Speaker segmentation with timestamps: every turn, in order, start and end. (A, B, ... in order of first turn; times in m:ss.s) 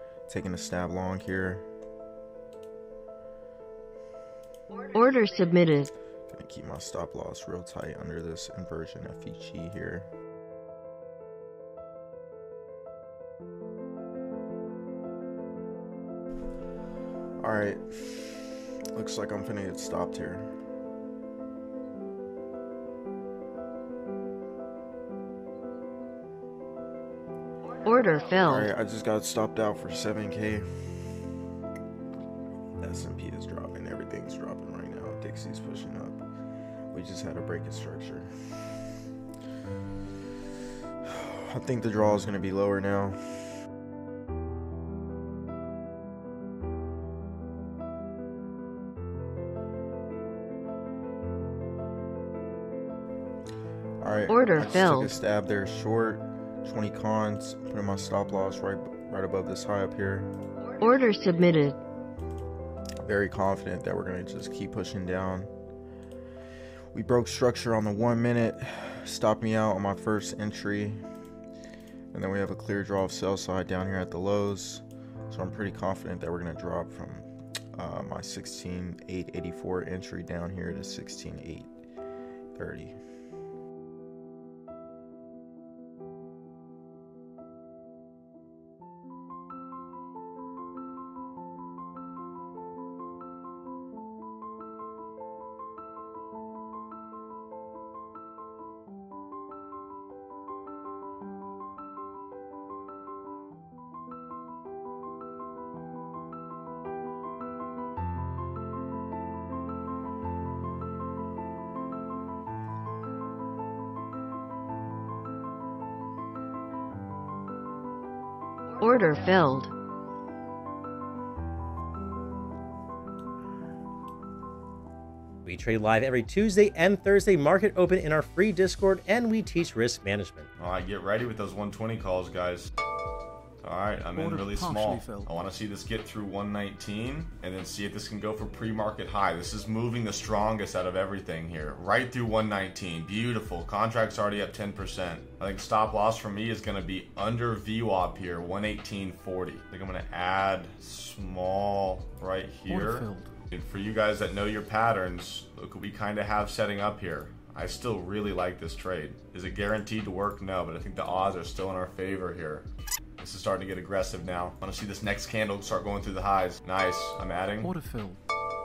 0:00.3-0:01.6 A
0:04.9-0:05.9 B
0:06.3-0:10.1 A
0:17.4-0:20.5 A
0:27.9-0:28.7 B
0:28.4-0:30.7 A
0:32.8-0:36.2 A
0:36.9-0:38.3 A
0:41.0-0:43.4 A
0:54.0-1:00.3 A
0:54.3-0:55.2 B
1:00.8-1:01.8 B
1:03.0-1:05.5 A
1:06.9-1:11.0 A
1:12.1-1:21.7 A
1:22.6-1:23.0 A
1:58.8-1:59.7 B
2:05.4-2:10.5 C
2:10.6-2:12.7 D
2:13.6-2:42.7 D
2:14.0-2:15.3 E
2:32.7-2:33.3 E
2:43.2-2:47.7 D
2:47.6-2:48.2 E